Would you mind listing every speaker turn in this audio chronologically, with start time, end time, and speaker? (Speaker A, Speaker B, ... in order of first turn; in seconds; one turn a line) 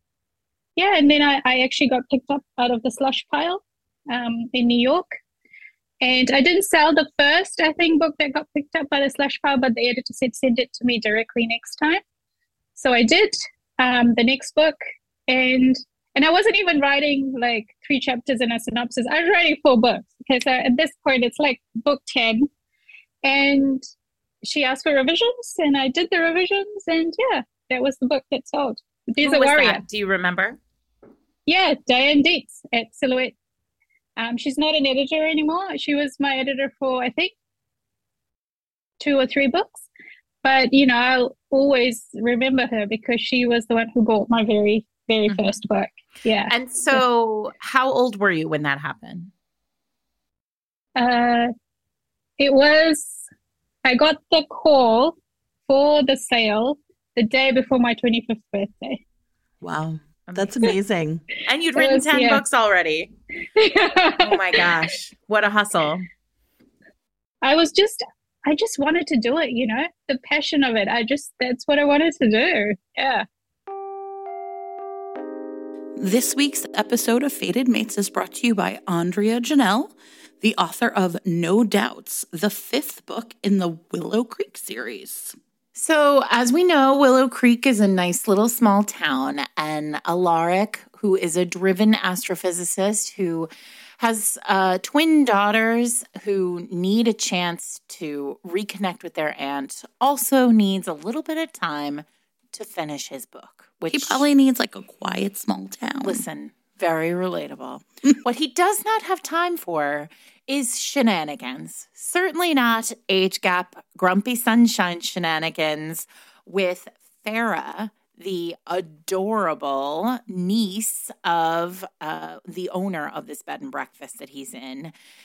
Speaker A: 0.8-5.1
Speaker A: 6.0-12.0
Speaker A: 12.8-14.8
Speaker A: 15.3-22.5
Speaker A: 23.2-23.8
Speaker A: 24.4-29.8
Speaker B: 29.2-30.6
Speaker A: 31.5-33.4
Speaker A: 34.2-37.3
Speaker A: 39.0-39.9
Speaker A: 40.4-47.0
Speaker B: 45.3-45.6
Speaker B: 46.5-49.3
Speaker A: 51.0-51.5
Speaker A: 52.4-53.2
Speaker A: 53.9-55.2
Speaker A: 55.7-59.0
Speaker C: 59.6-61.2
Speaker B: 60.3-60.7
Speaker B: 61.4-63.1
Speaker A: 61.8-62.4
Speaker A: 63.6-64.7
Speaker B: 64.2-66.1
Speaker A: 67.4-73.2
Speaker C: 76.0-85.4
Speaker B: 85.8-93.5
Speaker B: 94.0-104.3
Speaker C: 103.9-106.2
Speaker B: 106.0-124.9